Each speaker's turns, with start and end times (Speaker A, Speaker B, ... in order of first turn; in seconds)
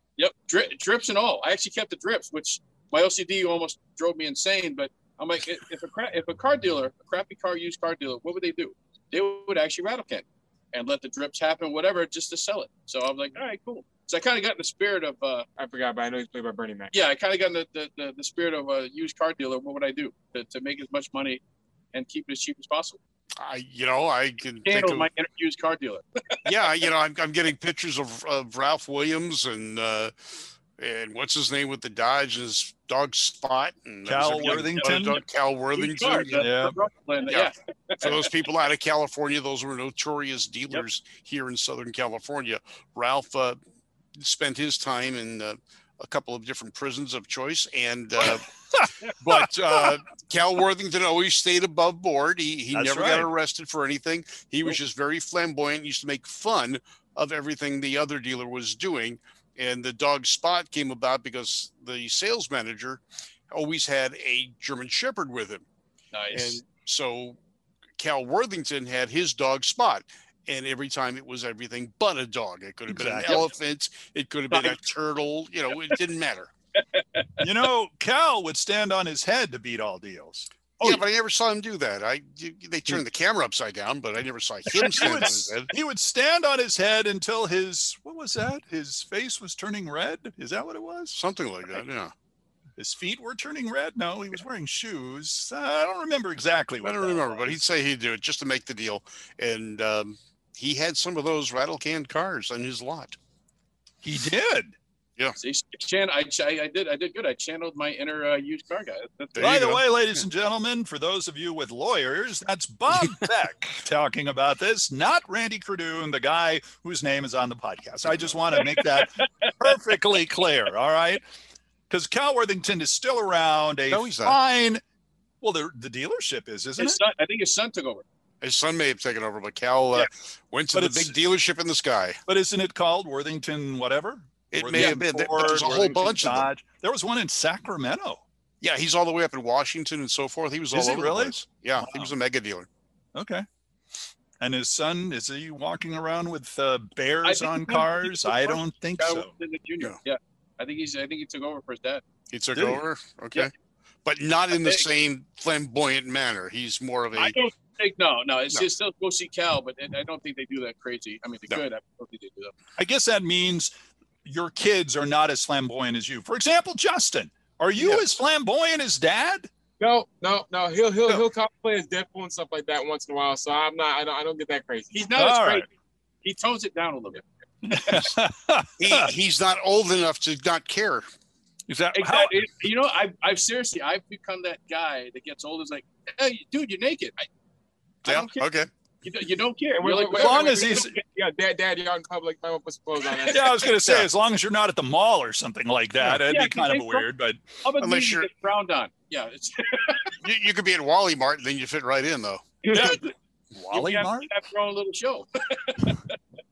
Speaker A: 0.2-15.4, 16.9-21.4, 21.9-23.0, 24.6-26.4, 34.2-35.2, 35.8-38.3, 66.1-66.6, 74.5-74.8, 76.8-77.4, 84.7-85.2, 105.4-109.6, 118.5-119.5, 126.8-128.0, 134.7-135.7, 147.2-152.0, 154.5-154.8, 157.1-162.5, 174.9-175.7, 176.2-177.2, 181.9-187.3, 188.0-188.5, 189.0-190.9, 196.0-197.1, 197.6-200.1, 202.7-203.1, 203.7-206.2
Speaker B: 15.6-16.9, 169.8-175.1, 189.8-193.8, 202.7-203.0
Speaker C: 23.4-25.1, 26.4-30.1, 30.8-36.5, 37.3-43.6, 44.1-48.5, 49.1-65.7, 66.3-67.4, 68.0-76.5, 80.8-85.7, 91.1-92.1, 96.8-103.2, 109.3-109.8, 118.0-118.3, 123.9-124.4, 128.4-132.2, 134.5-136.5, 138.6-142.7, 152.3-153.5, 154.0-157.4, 167.8-168.0, 177.9-178.2, 178.8-181.1, 188.0-188.7, 197.8-198.3, 200.2-202.4
Speaker D: 34.0-35.2, 36.4-36.8, 48.7-49.5, 52.7-53.3, 72.9-73.5, 77.4-80.5, 85.0-91.2, 92.8-97.6, 104.0-104.8, 109.4-121.2, 121.9-124.8, 125.4-127.0, 130.7-131.1, 132.3-138.2, 140.7-142.1, 143.1-143.4, 144.4-149.3, 152.5-152.8, 162.8-163.7, 164.2-169.5, 175.2-175.7, 177.6-179.1, 181.7-182.5, 190.1-191.0, 193.3-197.4, 203.5-204.3